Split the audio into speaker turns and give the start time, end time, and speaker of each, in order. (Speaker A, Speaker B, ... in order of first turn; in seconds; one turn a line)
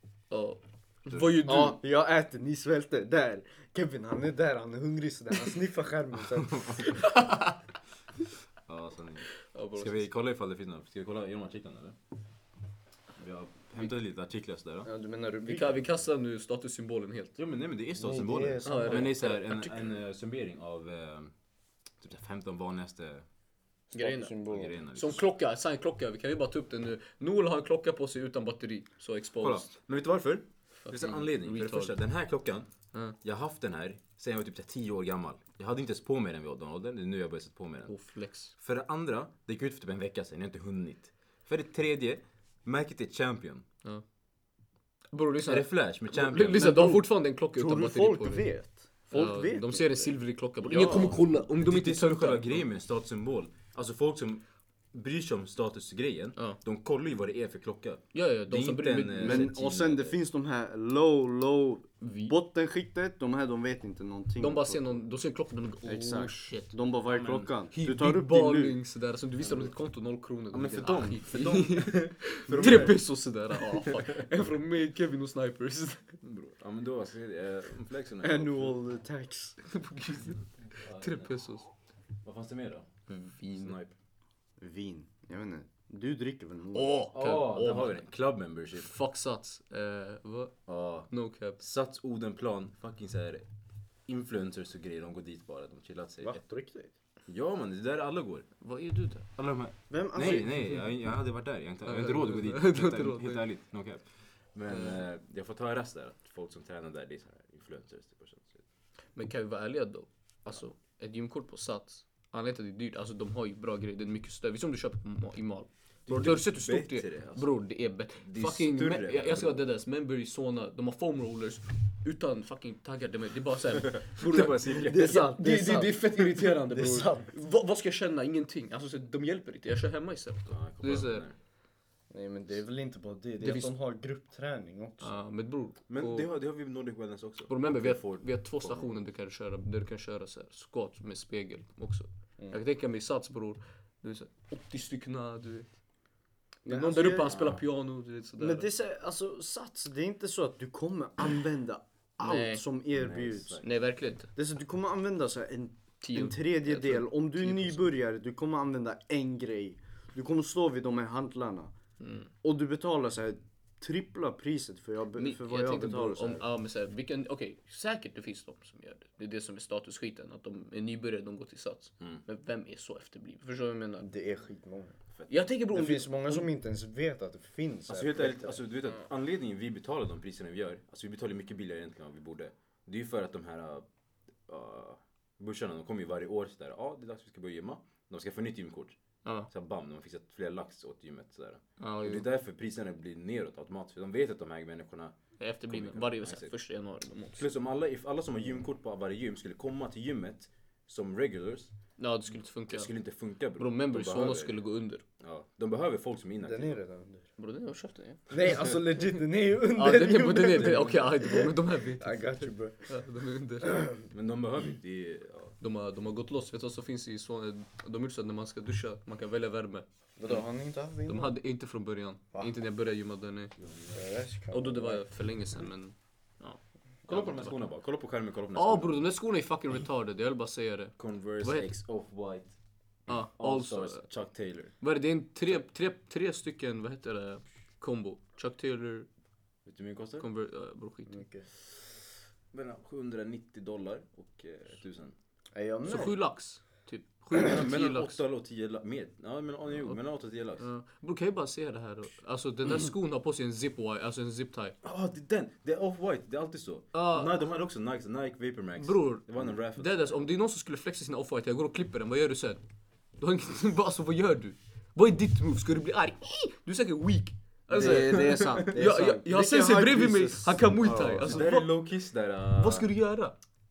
Speaker A: 0.3-1.8
Speaker B: 1.1-1.5
Speaker C: 1.4-7.0
Speaker B: 6.3-7.0
Speaker A: 6.9-7.5
Speaker B: 8.7-11.9
Speaker A: 9.5-10.1
Speaker B: 13.2-14.9
Speaker C: 14.8-15.8
Speaker A: 15.4-17.4
Speaker B: 17.4-21.3
Speaker C: 18.0-19.2
Speaker A: 18.6-19.9
Speaker B: 22.0-23.2
Speaker A: 23.9-24.4
Speaker C: 23.9-24.8
Speaker B: 24.5-25.2
Speaker A: 24.9-29.7
Speaker B: 29.4-37.9
Speaker A: 30.8-31.9
Speaker A: 37.9-38.5
Speaker B: 38.6-43.6
Speaker A: 45.1-48.5
Speaker B: 45.5-46.7
Speaker C: 46.5-51.2
Speaker A: 49.1-52.6
Speaker B: 50.7-60.2
Speaker A: 58.1-59.5
Speaker C: 59.1-65.0
Speaker A: 62.0-62.3
Speaker A: 64.4-66.7
Speaker C: 65.8-68.8
Speaker B: 67.1-67.5
Speaker A: 67.7-76.1
Speaker B: 70.5-73.0
Speaker B: 73.5-74.2
Speaker B: 76.2-78.7
Speaker C: 78.2-79.6
Speaker A: 79.6-81.7
Speaker B: 80.7-81.4
Speaker B: 82.2-82.9
Speaker A: 83.1-83.8
Speaker B: 83.4-83.9
Speaker C: 84.6-87.0
Speaker A: 86.7-88.0
Speaker B: 87.1-88.9
Speaker A: 88.7-90.5
Speaker B: 90.7-93.4
Speaker A: 91.1-91.6
Speaker B: 94.1-96.4
Speaker C: 96.2-96.9
Speaker B: 97.2-98.5
Speaker A: 98.6-99.2
Speaker B: 99.3-108.6
Speaker C: 99.9-100.7
Speaker A: 101.8-103.4
Speaker A: 104.7-105.0
Speaker A: 109.1-131.2
Speaker B: 116.1-117.6
Speaker B: 118.2-119.6
Speaker B: 123.8-125.3
Speaker C: 124.8-127.3
Speaker B: 130.5-131.3
Speaker C: 132.1-135.1
Speaker A: 133.4-133.7
Speaker A: 135.0-136.3
Speaker B: 135.9-139.0
Speaker A: 137.5-145.7
Speaker C: 146.6-147.4
Speaker A: 146.7-148.7
Speaker B: 147.2-147.6
Speaker C: 148.4-153.6
Speaker A: 152.2-152.6
Speaker B: 152.9-153.7
Speaker A: 153.6-154.3
Speaker C: 154.3-161.7
Speaker A: 156.0-157.9
Speaker A: 162.0-162.3
Speaker C: 162.4-166.5
Speaker A: 165.2-174.1
Speaker C: 174.0-175.0
Speaker A: 175.3-176.5
Speaker C: 175.7-178.6
Speaker B: 177.9-183.8
Speaker B: 184.5-188.9
Speaker B: 189.5-196.5
Speaker A: 191.8-192.2
Speaker A: 195.4-197.4
Speaker B: 197.4-201.7
Speaker A: 202.0-202.9
Speaker B: 202.7-204.6
Speaker A: 203.6-205.0
Speaker B: 205.2-206.8
Speaker C: 206.4-207.3
Speaker A: 207.4-208.8
Speaker C: 208.3-212.9
Speaker A: 209.7-212.3
Speaker B: 210.6-211.0
Speaker A: 212.9-213.9
Speaker B: 214.1-215.6
Speaker A: 215.6-220.4
Speaker C: 220.2-221.3
Speaker A: 221.1-223.5
Speaker B: 223.6-224.0
Speaker C: 223.9-225.0
Speaker A: 224.5-227.6
Speaker B: 227.1-229.0
Speaker A: 228.5-231.7
Speaker B: 231.0-232.6
Speaker A: 233.1-234.1
Speaker B: 233.1-234.8
Speaker A: 234.8-239.1
Speaker B: 239.7-240.3
Speaker A: 240.2-241.2
Speaker C: 241.1-241.5
Speaker B: 242.5-245.1
Speaker C: 245.5-246.2
Speaker A: 245.8-248.2
Speaker B: 247.3-250.7
Speaker A: 250.6-254.8
Speaker B: 254.8-260.2
Speaker A: 256.9-257.3
Speaker A: 258.8-262.6
Speaker A: 263.2-271.7
Speaker C: 267.7-271.5
Speaker B: 267.7-268.8
Speaker B: 271.2-272.9
Speaker A: 272.6-273.3